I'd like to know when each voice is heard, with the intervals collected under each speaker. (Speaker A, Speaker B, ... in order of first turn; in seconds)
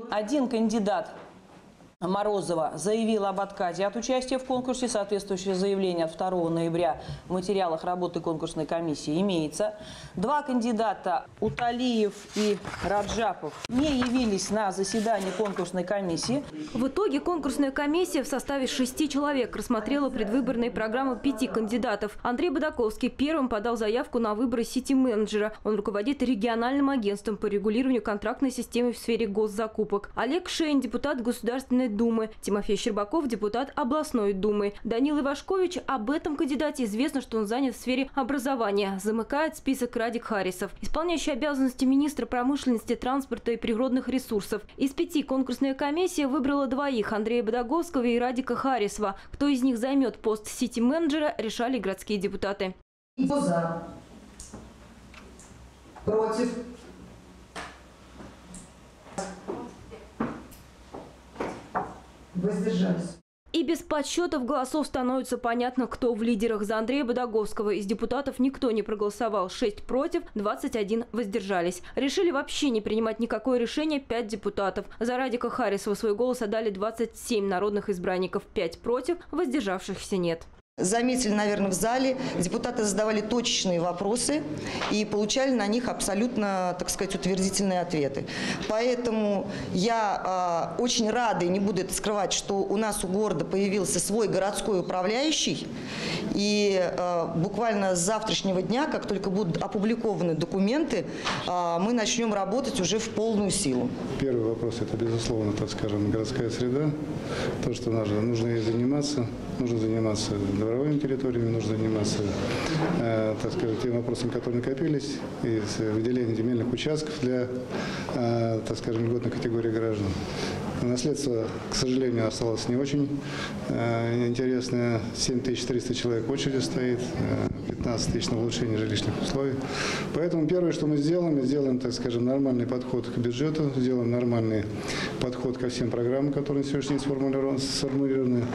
Speaker A: 0.1-1.1, 2.0-16.4
Speaker B: 16.7-52.7, 63.5-80.5
Speaker C: 53.2-53.7, 56.0-56.5, 62.3-63.1, 80.8-95.7, 96.3-103.9
Speaker D: 104.1-106.9, 107.6-112.3, 112.9-117.5, 118.1-120.2, 120.8-123.1, 123.7-129.6, 130.1-134.6, 135.2-138.5